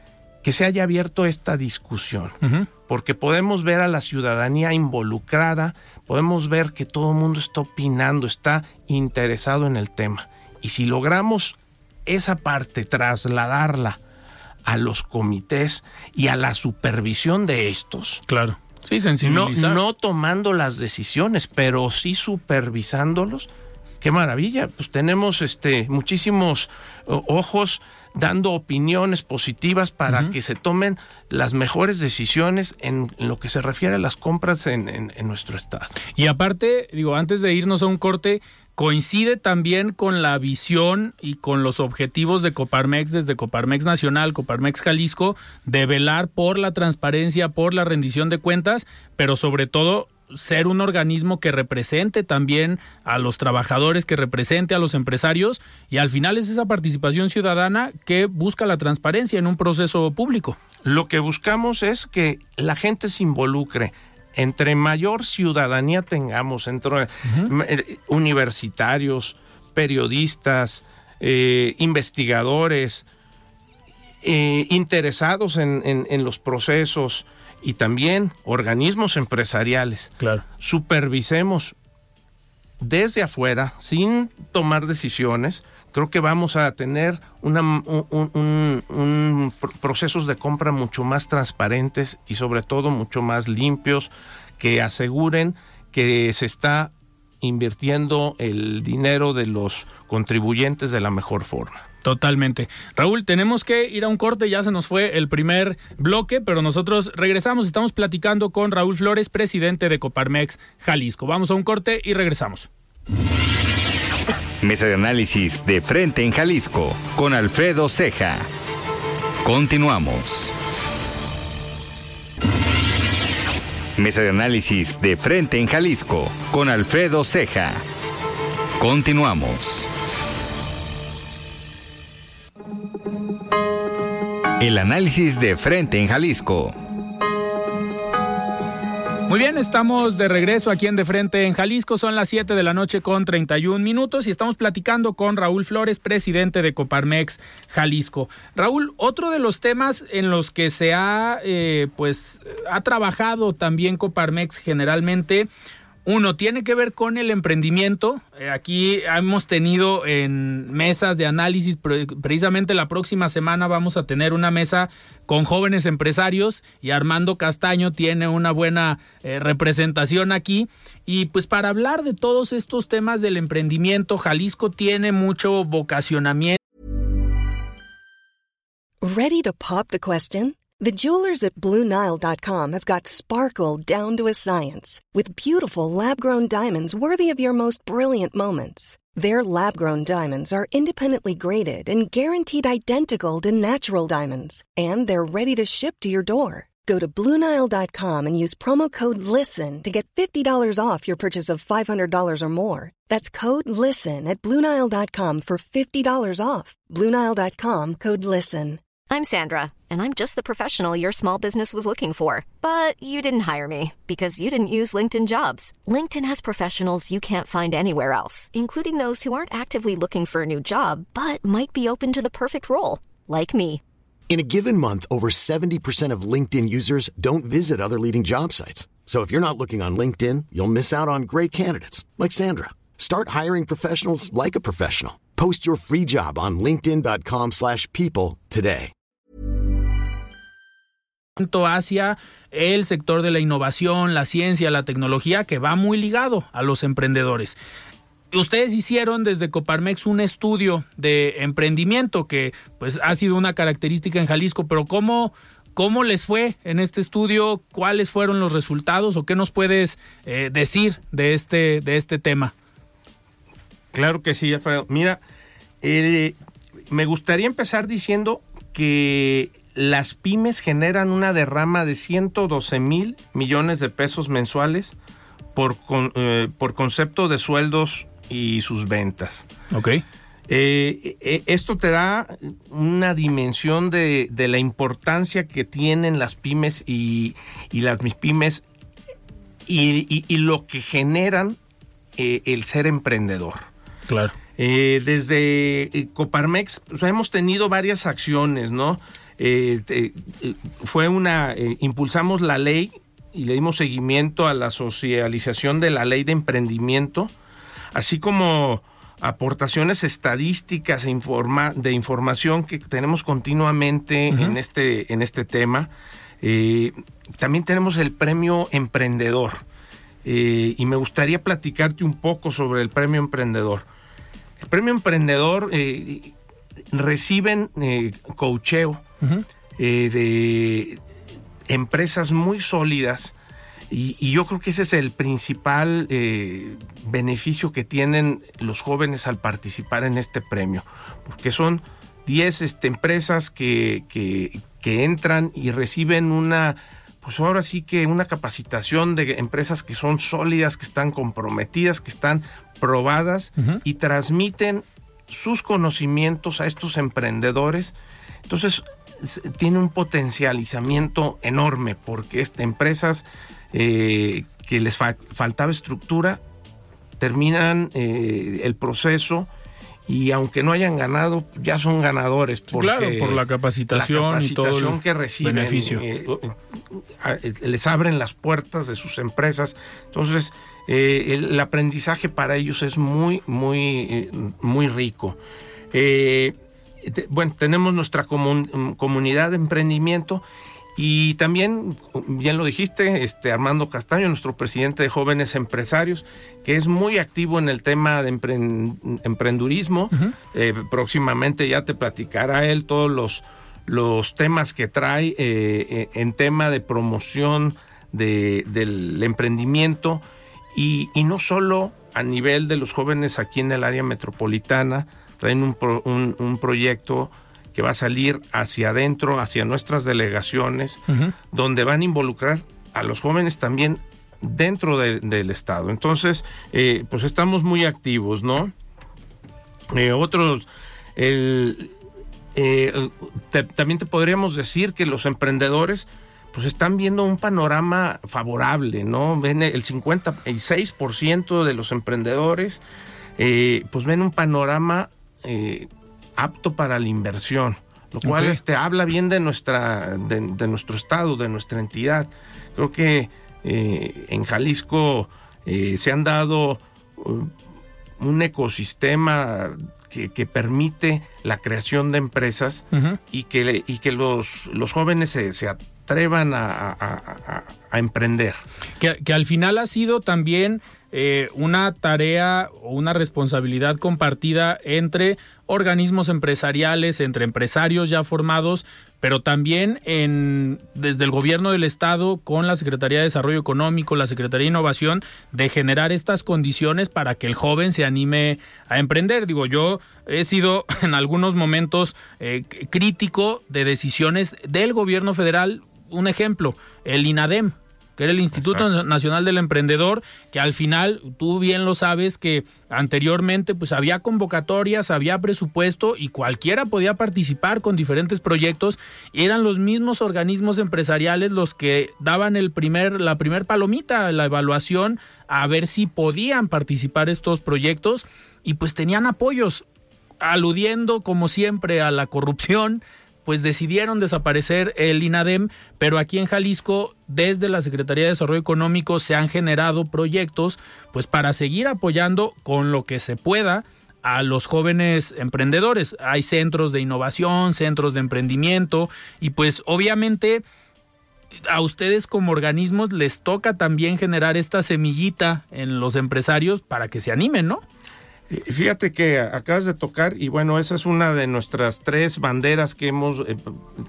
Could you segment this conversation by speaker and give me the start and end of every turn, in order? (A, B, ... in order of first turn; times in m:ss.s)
0:00.4-0:02.4 A
0:02.4-0:02.7 B
0:02.9-0:14.0 A
0:14.6-0:18.2 A
0:18.3-0:19.8 B
0:19.2-0:23.5 A
0:24.0-0:36.0 A
0:36.1-1:00.6 B
1:00.8-1:13.1 A
1:14.2-1:21.7 A
1:22.8-1:41.8 A
1:42.0-1:52.7 B
1:54.6-1:58.5 C
1:59.4-2:00.5 C
2:04.0-2:07.8 C
2:08.8-2:09.9 C
2:14.6-2:16.7 C
2:19.3-2:35.5 B
2:36.0-2:56.6 B
2:59.0-3:28.8 D
3:29.1-3:43.8 E
3:44.3-3:58.9 F
4:01.4-4:07.6 B
4:08.3-4:22.5 B
4:23.9-4:25.2 A
4:25.8-4:26.4 A
4:26.9-4:34.9 A
4:35.5-4:39.5 A
4:39.7-4:40.0 B
4:40.5-4:48.6 A
4:49.6-4:51.6 A
4:52.2-4:53.7 A
4:54.1-4:54.4 B
4:54.6-5:07.3 A
5:07.9-5:15.9 A
5:14.3-5:14.6 B
5:16.4-5:19.6 A
5:20.2-5:23.8 A
5:24.6-5:26.3 A
5:26.9-5:29.0 A
5:29.8-5:31.0 A
5:31.7-5:33.3 A
5:33.9-5:57.9 A
5:58.5-6:06.4 A
6:07.2-6:09.5 A
6:10.1-6:25.4 A
6:12.7-6:16.0 B
6:25.9-6:30.4 A
6:31.0-6:50.2 A
6:50.7-7:08.7 A
7:01.1-7:01.3 B
7:09.9-7:11.9 A
7:12.5-7:22.8 A
7:23.4-7:37.5 A
7:28.2-7:28.6 B
7:38.2-7:48.6 A
7:42.9-7:43.2 B
7:49.0-8:39.8 B
8:40.4-9:00.6 B
9:01.7-9:07.8 B
9:08.5-9:13.8 A